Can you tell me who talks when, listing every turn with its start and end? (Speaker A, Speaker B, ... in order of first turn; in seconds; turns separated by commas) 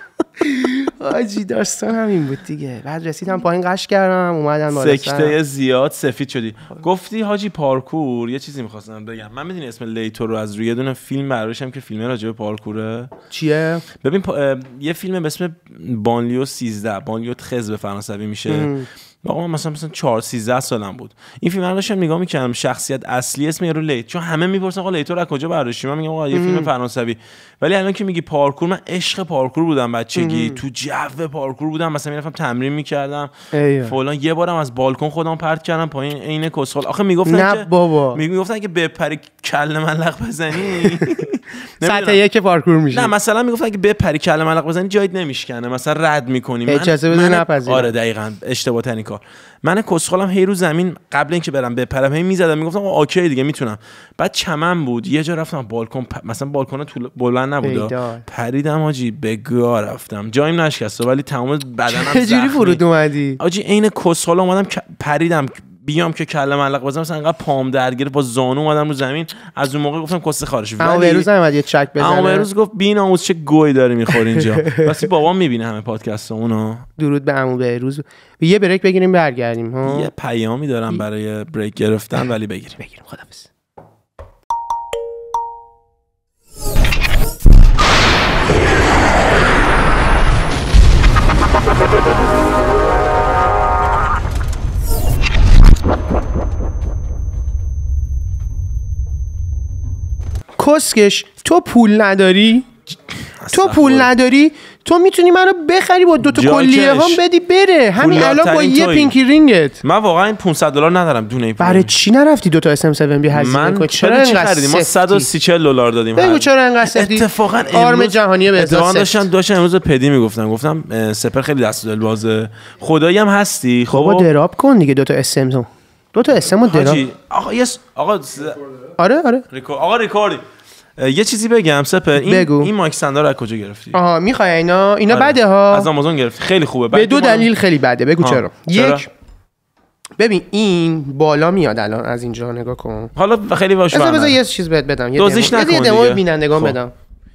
Speaker A: 0.4-5.3, Speaker B: 4.7-13.1, Speaker A: 13.3-13.8, Speaker B: 14.0-33.3, Speaker A: 18.5-18.9, Speaker A: 26.3-26.7, Speaker A: 30.1-30.6, Speaker A: 33.5-33.9, Speaker B: 33.8-42.2, Speaker A: 37.3-38.2, Speaker A: 40.7-41.1, Speaker A: 41.8-43.1, Speaker B: 42.9-62.8, Speaker A: 46.7-47.9, Speaker A: 57.6-58.2, Speaker A: 61.9-63.4, Speaker B: 63.4-71.3, Speaker A: 70.8-72.5, Speaker B: 72.0-76.9, Speaker A: 77.0-80.1, Speaker B: 79.8-82.8, Speaker A: 82.8-83.5, Speaker A: 100.6-102.7, Speaker B: 102.9-104.1, Speaker A: 103.5-109.8, Speaker B: 106.2-107.2, Speaker B: 108.0-109.2, Speaker B: 109.8-111.9, Speaker A: 111.6-115.3, Speaker B: 113.3-124.3, Speaker A: 116.2-119.3, Speaker A: 123.9-127.0, Speaker B: 126.6-128.7, Speaker A: 129.0-129.4, Speaker B: 129.5-130.4, Speaker B: 131.0-134.0, Speaker A: 132.2-132.7, Speaker A: 133.9-135.9, Speaker B: 135.1-137.5, Speaker A: 136.9-139.1, Speaker B: 138.2-139.0, Speaker A: 140.2-143.1, Speaker B: 143.1-144.4, Speaker A: 143.9-146.9, Speaker B: 145.2-146.8